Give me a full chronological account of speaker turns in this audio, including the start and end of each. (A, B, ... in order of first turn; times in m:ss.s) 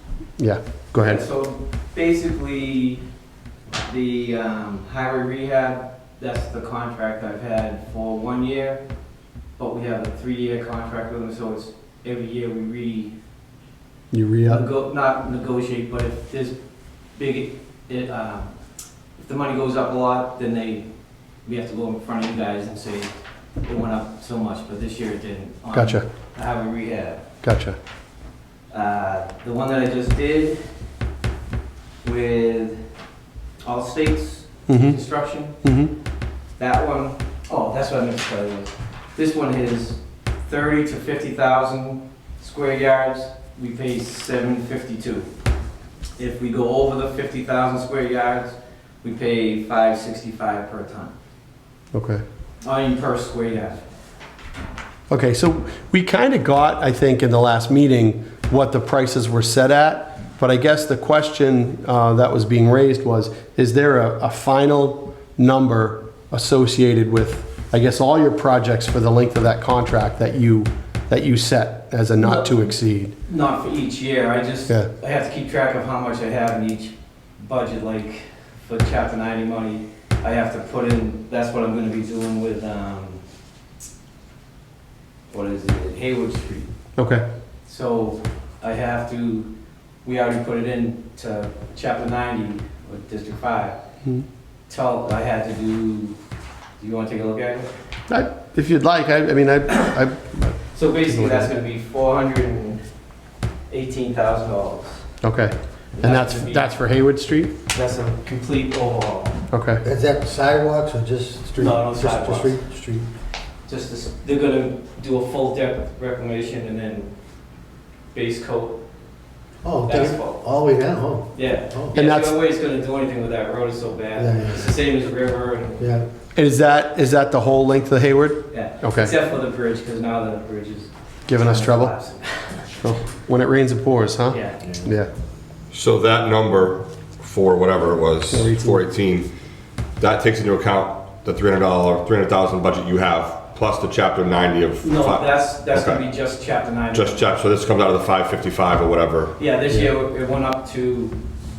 0:00.4-0:01.2 A
0:01.0-0:03.0 B
0:03.8-0:08.8 B
0:09.6-0:13.1 B
0:14.1-0:14.6 A
0:14.4-0:16.5 B
0:17.2-0:18.5 B
0:19.2-0:20.8 B
0:21.4-0:23.1 B
0:23.6-0:27.2 B
0:25.7-0:26.0 A
0:27.4-0:27.8 A
0:28.7-0:30.6 B
0:32.0-0:32.8 B
0:33.6-0:35.6 B
0:34.7-0:35.0 A
0:35.6-0:35.9 A
0:36.6-0:45.3 B
0:46.2-0:51.1 B
0:51.9-0:52.2 A
0:52.6-0:53.8 B
0:55.1-1:13.1 A
1:12.2-1:12.7 B
1:13.3-1:23.2 B
1:25.3-1:26.7 B
1:27.0-1:27.2 A
1:27.6-1:29.5 B
1:30.0-1:33.8 B
1:34.7-1:36.2 B
1:36.8-1:37.7 B
1:38.1-1:41.5 A
1:40.7-1:42.8 B
1:43.7-1:45.0 B
1:45.2-1:47.5 A
1:46.0-1:46.8 B
1:47.7-1:49.4 B
1:49.5-1:49.8 A
1:49.8-1:53.1 C
1:51.6-1:52.6 B
1:53.7-1:57.1 B
1:58.1-1:58.8 B
1:59.6-2:02.0 C
1:59.8-2:00.4 B
2:01.3-2:05.8 B
2:01.9-2:02.3 A
2:04.2-2:04.7 C
2:05.8-2:06.0 C
2:06.3-2:09.1 A
2:08.5-2:12.7 B
2:11.3-2:11.9 A
2:12.8-2:15.1 A
2:14.3-2:14.9 B
2:15.7-2:19.3 D
2:18.3-2:18.8 A
2:20.0-2:26.0 D
2:24.8-2:27.3 B
2:26.9-2:29.3 D
2:29.4-2:31.2 B